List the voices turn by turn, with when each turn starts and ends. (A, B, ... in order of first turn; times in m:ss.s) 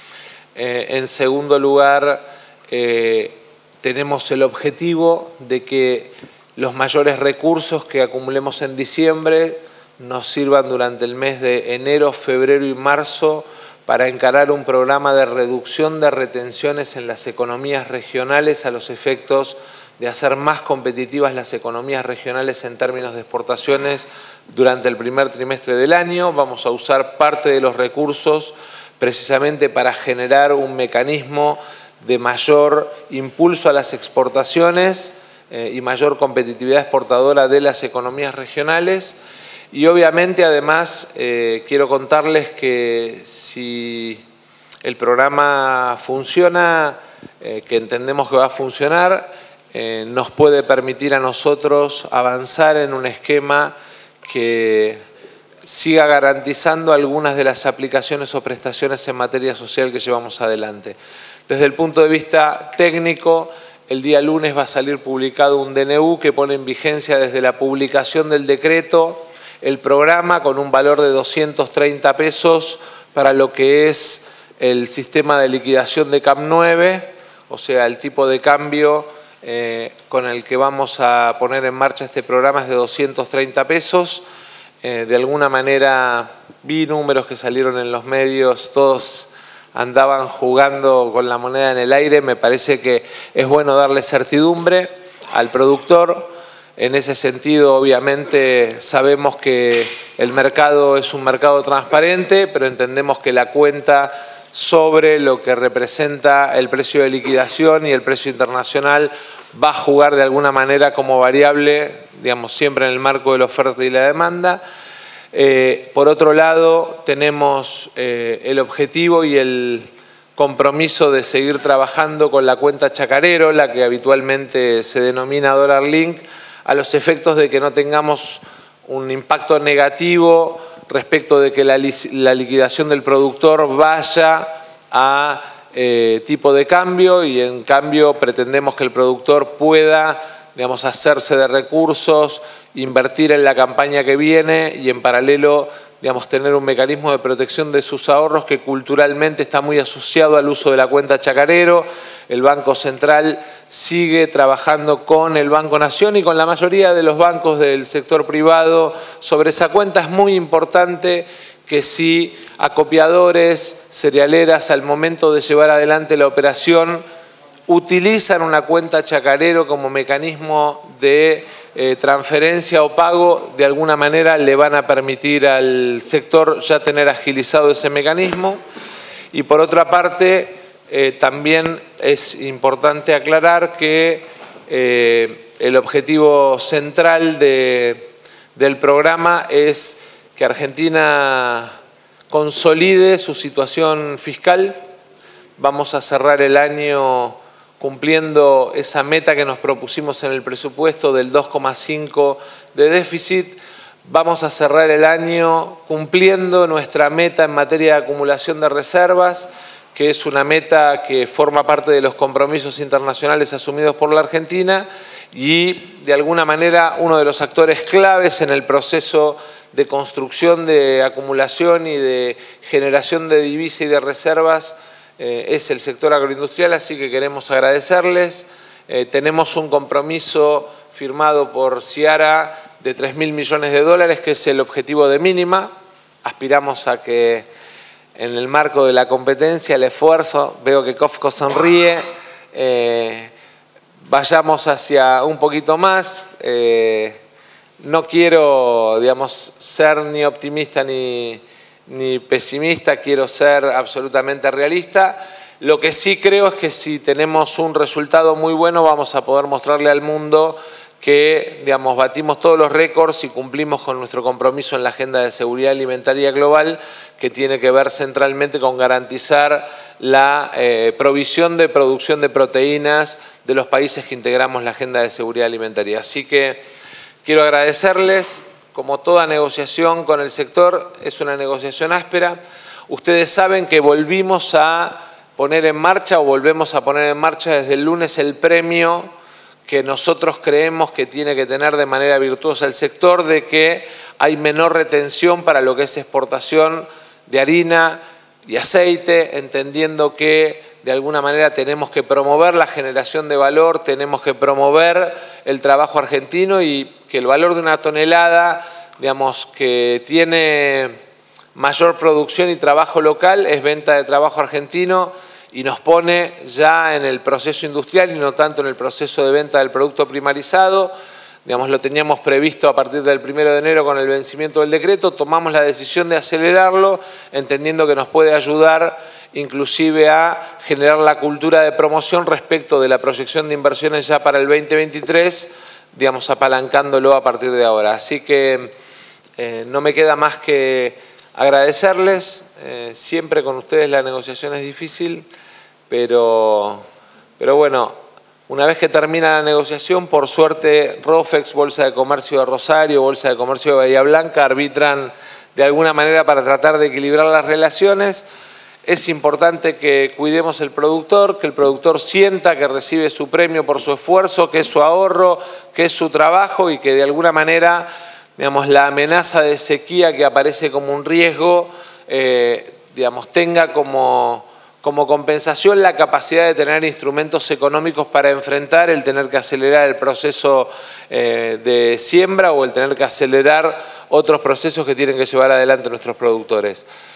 0:00.5-0:39.2 A
0:39.7-0:44.2 A
0:44.8-0:55.0 A
0:55.6-1:01.0 A
1:01.5-1:24.2 A
1:24.8-1:54.6 A
1:55.3-2:47.0 A
2:47.7-2:58.6 A
2:59.3-3:11.7 A
3:12.3-3:14.8 A
3:15.6-3:55.7 A
3:56.2-3:57.4 A
3:58.2-4:03.3 A
4:04.0-4:07.2 A
4:07.8-4:36.6 A
4:37.2-4:49.1 A
4:49.6-5:10.9 A
5:11.5-5:20.9 A
5:21.4-5:38.7 A
5:39.4-5:45.2 A
5:45.9-5:46.8 A
5:47.4-5:47.9 A
5:48.5-5:58.3 A
5:58.8-6:26.9 A